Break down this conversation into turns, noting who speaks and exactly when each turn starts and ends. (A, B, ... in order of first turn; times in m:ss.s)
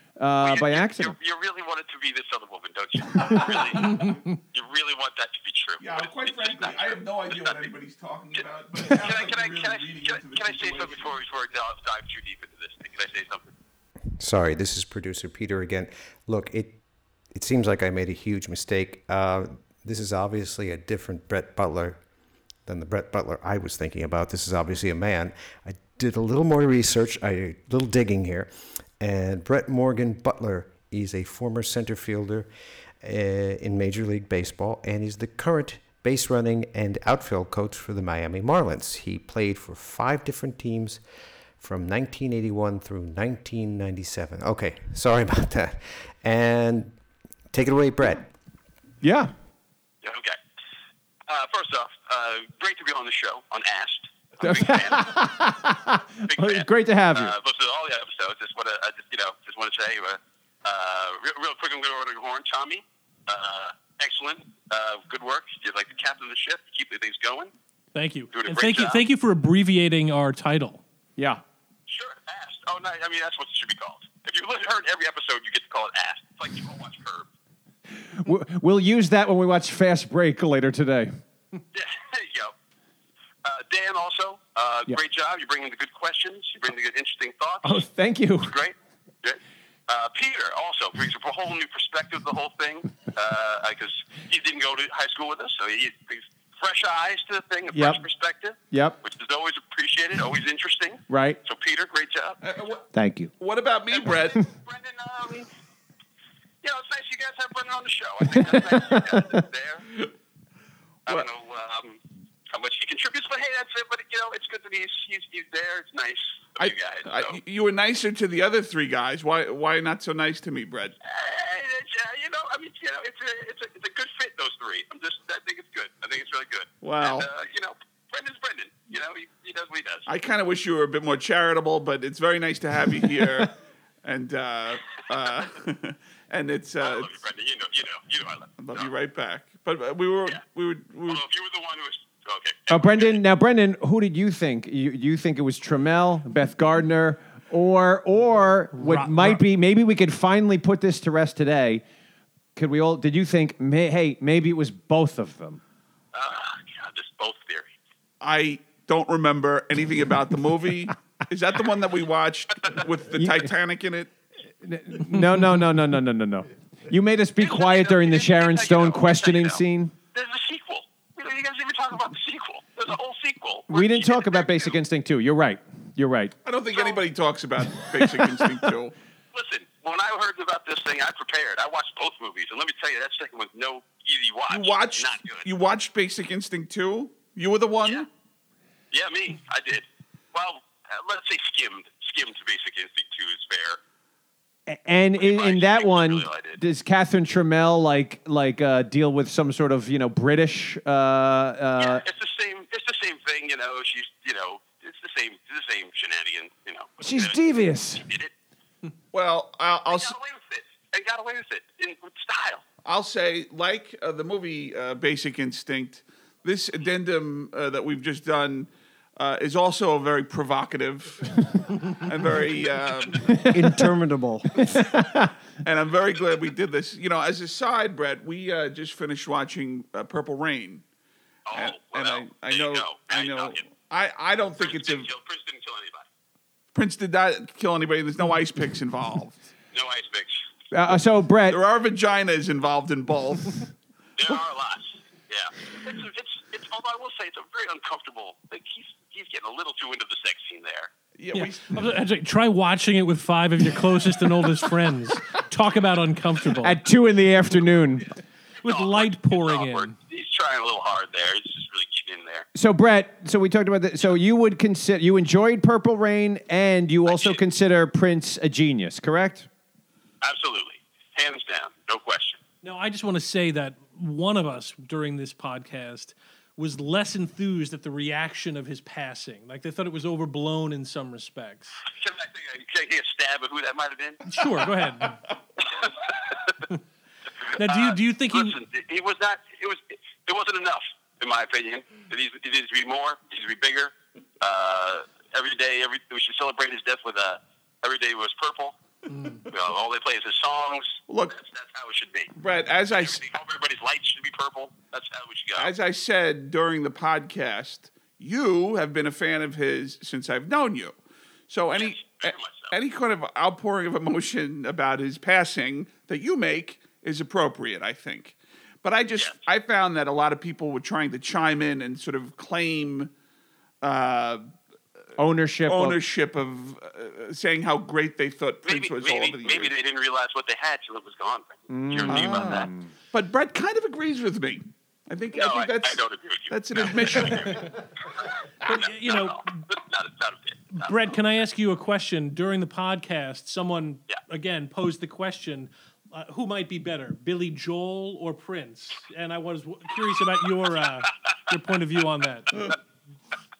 0:00.2-0:01.2 A
0:00.4-0:07.7 B
0:05.8-0:11.2 C
0:08.3-0:13.5 B
0:14.2-0:16.8 D
0:17.3-0:22.0 D
0:22.7-0:32.5 D
0:33.0-0:41.0 D
0:41.6-0:47.0 D
0:47.5-0:48.3 D
0:49.0-0:49.3 A
0:50.0-0:50.4 B
0:51.3-0:55.2 B
0:54.4-0:57.3 A
0:56.2-1:07.5 B
1:07.9-1:10.8 E
1:08.3-1:09.0 B
1:11.2-1:11.4 A
1:11.9-1:17.3 B
1:17.9-1:21.1 A
1:21.7-1:22.5 B
1:23.4-1:27.9 B
1:27.6-1:28.6 A
1:28.4-1:42.4 B
1:37.7-1:38.0 A
1:38.7-1:39.0 A
1:41.1-1:41.4 A
1:42.4-1:42.9 C
1:42.9-1:43.3 D
1:43.4-1:44.4 C
1:43.9-1:45.5 B
1:46.6-1:49.9 B
1:48.3-1:49.0 A
1:51.1-1:57.4 B
1:56.6-2:01.0 C
2:01.0-2:10.1 B
2:06.8-2:07.3 C
2:10.1-2:13.5 C
2:14.0-2:17.2 C
2:16.8-2:18.9 B
2:18.6-2:21.2 C
2:21.1-2:23.2 B
2:22.7-2:31.8 A
2:28.7-2:29.4 E
2:32.6-2:35.6 A
2:36.1-2:37.7 B
2:38.2-2:44.1 C
2:43.1-2:43.5 A
2:44.6-2:49.9 A
2:47.4-2:49.6 B
2:50.1-2:54.8 B
2:53.7-2:56.4 A
2:56.4-2:59.0 C
2:56.7-2:57.0 B
2:57.8-2:58.7 A
2:59.3-3:05.5 B
3:04.5-3:08.1 C
3:08.9-3:13.8 B
3:14.7-3:22.0 A
3:15.2-3:16.6 B
3:21.8-3:28.3 B
3:27.0-3:28.1 A
3:29.1-3:30.2 C
3:29.9-3:32.6 B
3:32.8-3:43.3 C
3:43.2-3:43.9 A
3:43.5-3:44.7 D
3:44.6-3:45.3 A
3:45.6-3:50.8 C
3:51.5-3:53.6 B
3:51.5-3:55.1 C
3:54.6-3:56.1 B
3:56.8-3:59.4 C
3:59.7-4:00.4 B
4:00.7-4:01.6 A
4:00.9-4:03.7 C
4:04.2-4:10.9 B
4:11.2-4:11.8 C
4:11.3-4:16.8 E
4:16.6-4:18.1 A
4:18.6-4:20.0 E
4:18.6-4:22.5 B
4:22.5-4:29.5 A
4:27.1-4:27.4 B
4:30.2-4:32.4 B
4:32.6-4:41.8 E
4:41.9-4:44.2 B
4:44.3-4:45.2 E
4:45.7-4:46.3 B
4:47.4-4:58.8 B
4:47.6-4:48.6 E
4:59.4-5:02.3 B
5:01.1-5:01.4 C
5:02.4-5:03.2 C
5:03.0-5:05.7 B
5:05.6-5:11.0 C
5:11.5-5:23.1 C
5:11.7-5:12.8 B
5:23.8-5:24.5 C
5:25.2-5:26.0 A
5:25.6-5:29.7 C
5:28.6-5:32.7 B
5:31.7-5:32.9 A
5:32.1-5:37.7 C
5:35.4-5:41.1 B
5:38.6-5:39.5 E
5:40.8-5:52.8 E